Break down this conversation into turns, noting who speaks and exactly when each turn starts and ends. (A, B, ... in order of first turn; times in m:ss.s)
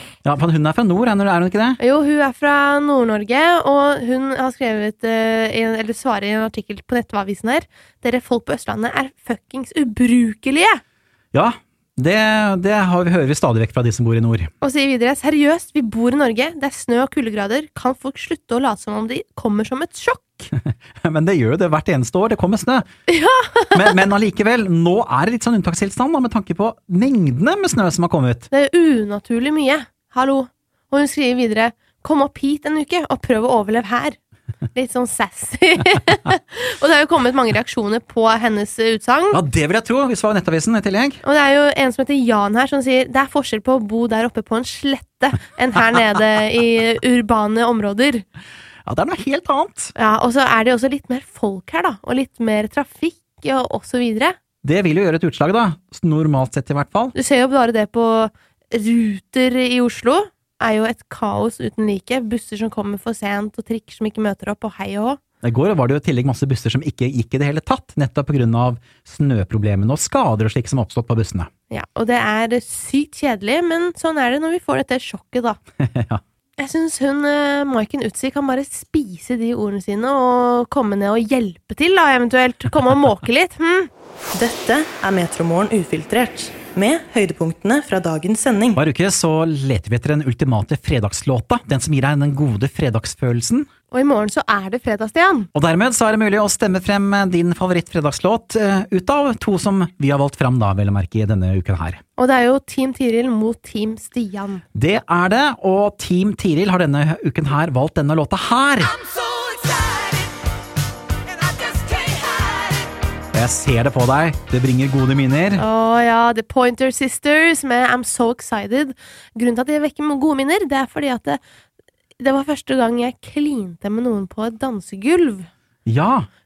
0:00.2-0:01.8 A
0:01.8-0:10.8 B
0:11.3-0:14.5 A
0:14.6-0:20.5 B
0:20.6-0:22.9 A
0:23.1-0:23.8 B
0:23.7-0:28.5 A
0:28.5-0:34.2 B
0:34.8-0:39.4 B
0:39.3-0:41.2 A
0:41.2-0:48.2 B
0:48.9-0:49.9 A
0:50.0-0:54.4 B
0:54.6-0:57.1 A
0:57.1-1:05.2 B
1:05.4-1:11.5 A
1:11.7-1:15.6 B
1:15.8-1:16.2 A
1:16.6-1:23.9 B
1:24.4-1:28.8 C
1:28.8-1:33.7 A
1:33.9-1:35.5 B
1:35.5-1:42.0 A
1:42.2-1:44.6 B
1:44.8-1:49.0 A
1:53.3-1:55.6 A
1:55.6-2:01.4 B
2:02.2-2:05.5 B
2:05.9-2:06.3 A